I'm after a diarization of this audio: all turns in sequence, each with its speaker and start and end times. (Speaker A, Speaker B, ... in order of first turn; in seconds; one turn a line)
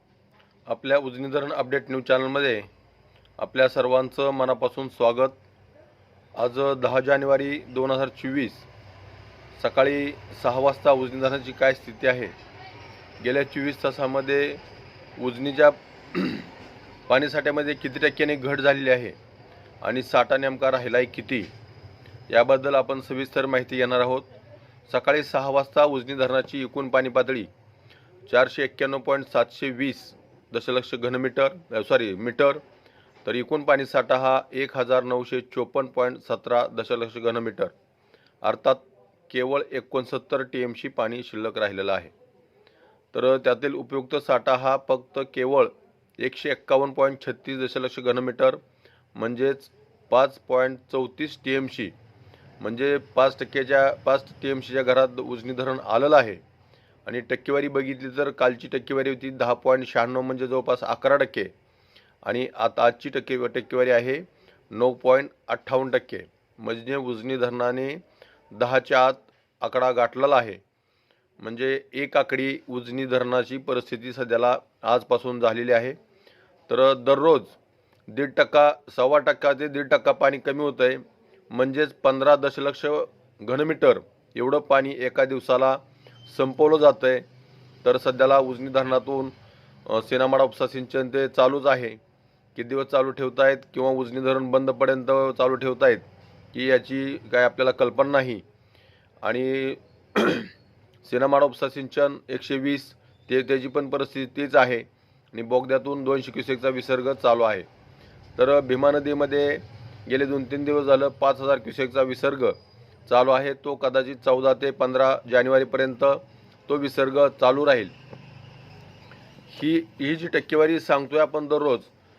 Speaker A: 0.7-2.7
Speaker A: 3.4-5.4
Speaker A: 6.3-8.7
Speaker A: 9.6-12.3
Speaker A: 13.2-14.6
Speaker A: 15.2-16.5
Speaker A: 17.1-19.2
Speaker A: 19.8-21.5
Speaker A: 22.3-24.3
Speaker A: 24.9-27.5
Speaker A: 28.3-32.6
Speaker A: 33.2-37.7
Speaker A: 38.4-42.1
Speaker A: 43.1-48.6
Speaker A: 49.1-51.9
Speaker A: 52.6-56.4
Speaker A: 57.0-61.5
Speaker A: 62.2-68.0
Speaker A: 68.5-70.6
Speaker A: 71.4-76.0
Speaker A: 76.7-77.6
Speaker A: 78.1-87.2
Speaker A: 87.8-89.3
Speaker A: 89.9-92.0
Speaker A: 92.5-98.4
Speaker A: 99.2-100.5
Speaker A: 101.0-107.7
Speaker A: 108.4-112.5
Speaker A: 113.1-117.9
Speaker A: 119.5-121.9